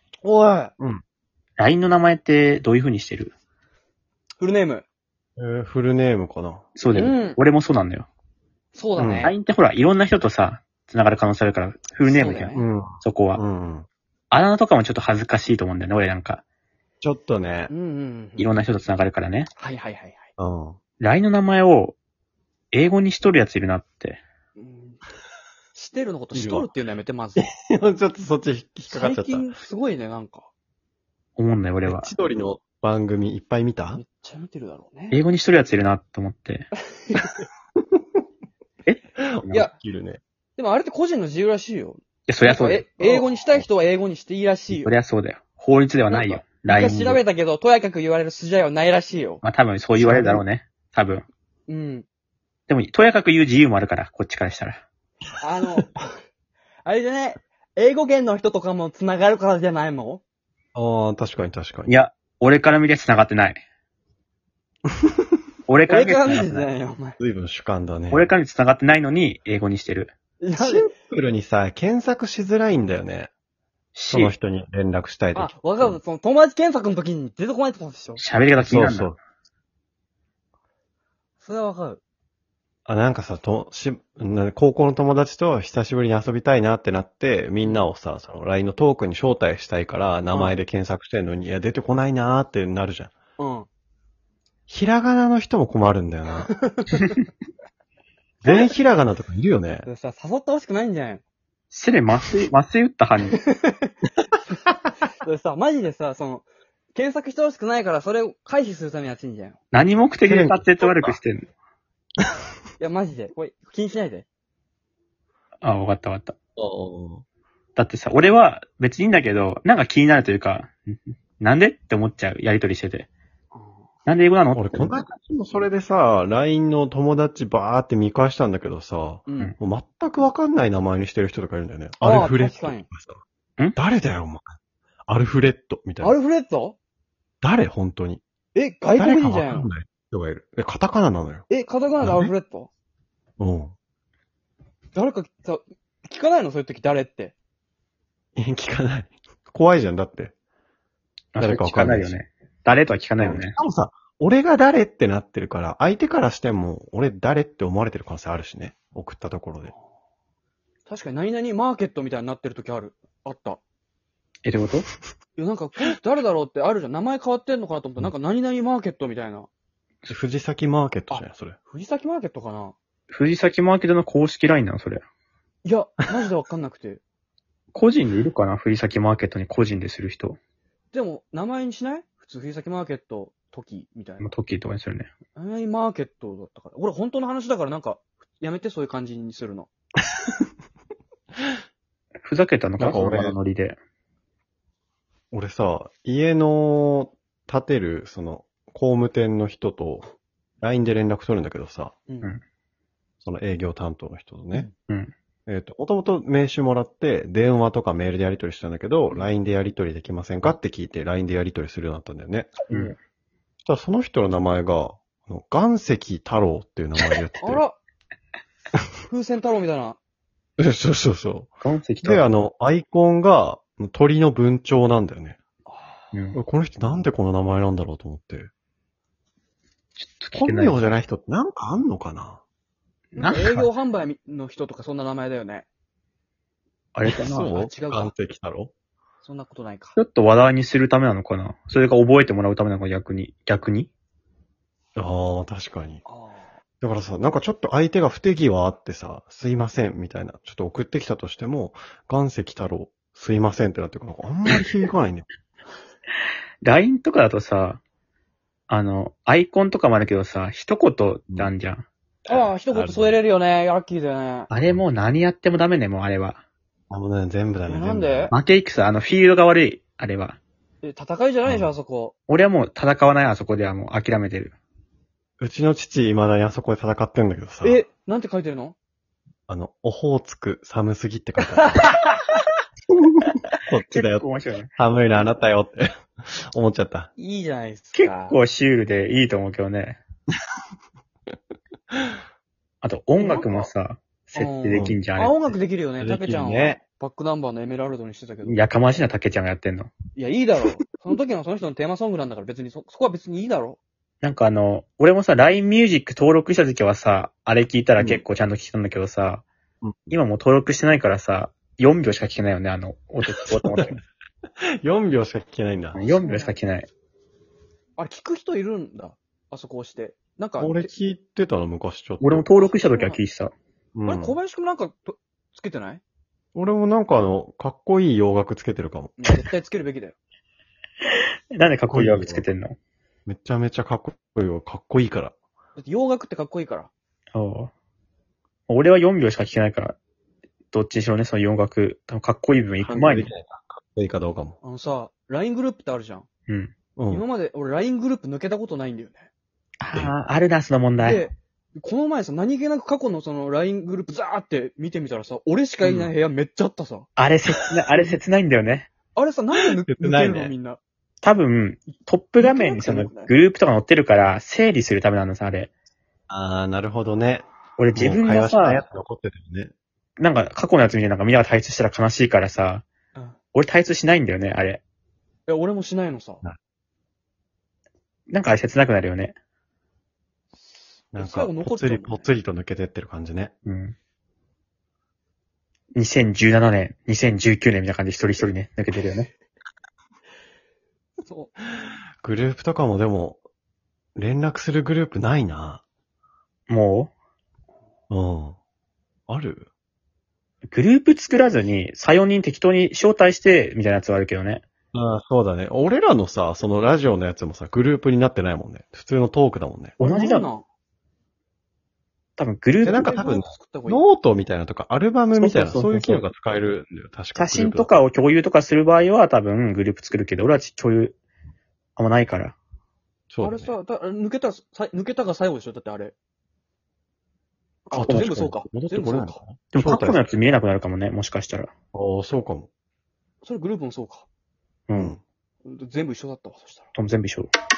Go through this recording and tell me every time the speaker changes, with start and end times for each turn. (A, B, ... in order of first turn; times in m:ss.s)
0:00.2-0:00.7 A
0:01.6-0:03.3 B
0:04.4-0:04.8 A
0:05.4-0:07.0 C
0:06.8-0:08.1 B
0:06.9-0:07.4 A
0:08.7-0:09.3 A
0:09.0-0:09.3 C
0:09.2-0:13.4 B
0:12.0-0:12.6 A
0:12.5-0:13.9 C
0:14.3-0:16.4 B
0:17.0-0:17.7 C
0:17.7-0:18.5 A
0:18.4-0:19.5 B
0:19.6-0:20.3 A
0:20.4-0:20.8 C
0:21.0-0:22.0 B
0:22.7-0:24.2 B
0:24.6-0:25.0 A
0:25.7-0:27.4 A
0:26.3-0:26.7 C
0:27.4-0:29.5 C
0:28.9-0:30.5 A
0:31.4-0:32.1 B
0:31.8-0:34.0 C
0:34.0-0:35.2 A
0:35.1-0:36.7 B
0:36.9-0:37.4 A
0:38.9-0:39.6 B
0:39.2-0:40.2 C
0:40.6-0:44.9 A
0:42.3-0:43.2 B
0:44.7-0:47.2 B
0:46.1-0:49.4 A
0:49.4-0:51.2 B
0:50.0-0:50.4 C
0:51.7-0:52.0 A
0:52.7-0:54.8 B
0:55.4-0:56.0 A
0:56.8-1:00.2 A
1:00.7-1:02.0 C
1:01.9-1:03.6 B
1:05.7-1:06.7 B
1:05.9-1:07.2 A
1:07.2-1:08.3 C
1:08.1-1:10.1 B
1:10.4-1:10.9 A
1:10.6-1:13.3 C
1:13.9-1:14.3 B
1:14.1-1:16.0 C
1:15.3-1:18.2 A
1:18.2-1:19.1 B
1:18.6-1:19.2 C
1:21.4-1:22.0 A
1:22.8-1:33.1 C
1:27.6-1:27.9 A
1:33.4-1:33.7 A
1:34.7-1:36.5 C
1:36.4-1:37.1 A
1:38.4-1:39.9 C
1:38.4-1:38.7 A
1:39.8-1:41.2 A
1:41.7-1:43.4 B
1:43.3-1:43.9 A
1:45.2-1:49.6 A
1:49.7-1:51.4 B
1:50.2-1:51.2 C
1:52.8-1:54.2 A
1:55.6-1:56.3 B
1:56.6-1:57.2 C
1:57.8-2:00.8 B
2:01.4-2:03.1 B
2:03.5-2:03.9 A
2:04.0-2:04.9 B
2:04.5-2:13.2 C
2:09.3-2:09.5 A
2:12.0-2:12.8 A
2:13.8-2:14.6 C
2:15.1-2:16.1 C
2:16.0-2:16.8 A
2:17.4-2:18.2 C
2:18.5-2:19.7 A
2:19.0-2:21.4 C
2:21.5-2:22.7 A
2:22.0-2:22.3 C
2:23.4-2:23.7 C
2:24.9-2:27.3 A
2:28.4-2:30.3 C
2:31.3-2:33.6 B
2:31.4-2:32.2 C
2:33.2-2:39.7 C
2:40.9-2:43.6 A
2:44.4-2:44.9 B
2:45.4-2:49.5 A
2:50.1-2:51.6 C
2:51.1-2:52.8 A
2:53.1-2:55.0 B
2:55.6-2:57.0 A
2:57.7-3:00.4 B
3:00.9-3:04.3 A
3:04.2-3:05.1 B
3:05.4-3:09.7 A
3:12.2-3:13.8 B
3:12.8-3:13.4 C
3:15.3-3:20.1 C
3:20.6-3:21.9 C
3:22.1-3:22.4 A
3:23.2-3:24.7 C
3:24.8-3:25.1 B
3:25.4-3:32.9 C
3:32.7-3:32.9 B
3:33.6-3:37.6 C
3:37.4-3:37.8 A
3:39.1-3:40.0 A
3:40.6-3:45.4 C
3:41.6-3:42.3 B
3:45.6-3:46.1 A
3:46.1-3:46.4 B
3:46.3-3:48.5 C
3:50.0-3:50.9 B
3:50.3-3:52.4 C
3:53.1-3:53.7 B
3:53.2-3:55.7 A
3:56.9-3:57.5 B
3:57.0-3:58.7 C
3:57.3-3:58.1 A
3:59.2-4:00.0 A
4:00.0-4:03.9 B
4:05.0-4:06.0 C
4:06.0-4:06.5 A
4:06.8-4:15.3 C
4:16.6-4:17.8 B
4:18.7-4:21.8 B
4:22.3-4:24.5 A
4:22.3-4:23.2 C
4:24.5-4:26.4 B
4:26.9-4:28.3 C
4:27.6-4:28.3 A
4:28.3-4:30.4 B
4:30.8-4:32.1 A
4:31.4-4:31.8 C
4:32.3-4:34.6 B
4:35.4-4:37.8 C
4:37.6-4:38.8 A
4:39.5-4:41.8 C
4:41.4-4:42.4 A
4:43.6-4:47.1 C
4:43.9-4:44.7 B
4:47.2-4:48.4 A
4:47.9-4:50.0 B
4:52.8-4:55.5 B
4:53.2-4:53.7 A
4:54.3-4:58.6 A
4:54.7-4:55.0 C
4:56.0-4:56.8 C
4:58.4-4:59.9 B
5:00.2-5:03.8 A
5:04.2-5:09.4 B
5:08.0-5:08.2 C
5:09.8-5:10.2 C
5:10.1-5:14.0 B
5:13.2-5:14.0 C
5:14.8-5:16.0 C
5:15.9-5:16.9 B
5:16.0-5:16.5 A
5:18.0-5:20.9 A
5:20.6-5:22.5 C
5:22.2-5:23.5 B
5:22.6-5:23.2 A
5:23.9-5:24.4 C
5:24.1-5:26.0 A
5:26.5-5:29.2 C
5:29.2-5:30.1 A
5:31.5-5:32.7 B
5:31.9-5:32.5 C
5:33.2-5:35.3 C
5:35.8-5:36.9 A
5:37.3-5:37.7 B
5:38.7-5:40.0 B
5:40.7-5:43.3 B
5:42.8-5:44.6 C
5:44.6-5:46.3 A
5:47.0-5:47.2 C
5:47.1-5:49.3 A
5:49.8-5:51.3 B
5:51.0-5:57.1 A
5:57.2-5:58.9 B
5:59.2-6:00.8 A
5:59.8-6:00.5 C
6:01.2-6:05.7 B
6:02.4-6:03.3 A
6:06.3-6:09.7 C
6:07.8-6:08.8 B
6:10.2-6:12.8 B
6:13.5-6:14.8 B
6:15.5-6:16.4 A
6:18.3-6:19.3 B
6:20.6-6:22.3 A
6:21.1-6:23.5 C
6:23.6-6:24.0 B
6:25.9-6:29.3 B
6:31.3-6:31.5 A
6:32.2-6:33.4 C
6:34.2-6:35.8 C
6:36.7-6:37.1 B
6:38.1-6:38.6 C
6:39.3-6:39.7 C
6:40.7-6:44.6 B
6:44.9-6:50.0 C
6:50.0-6:50.5 B
6:50.0-6:50.6 A
6:52.4-6:53.1 B
6:52.8-6:54.0 A
6:52.9-6:57.9 C
6:55.3-6:56.2 B
6:57.3-7:01.2 B
7:02.0-7:02.6 B
7:03.3-7:03.7 C
7:03.4-7:06.1 A
7:07.9-7:09.4 A
7:07.9-7:10.3 C
7:08.0-7:08.3 B
7:09.7-7:11.7 B
7:11.9-7:12.7 C
7:13.4-7:14.3 A
7:14.9-7:15.2 B
7:15.0-7:15.2 C
7:15.6-7:16.9 A
7:16.9-7:17.5 B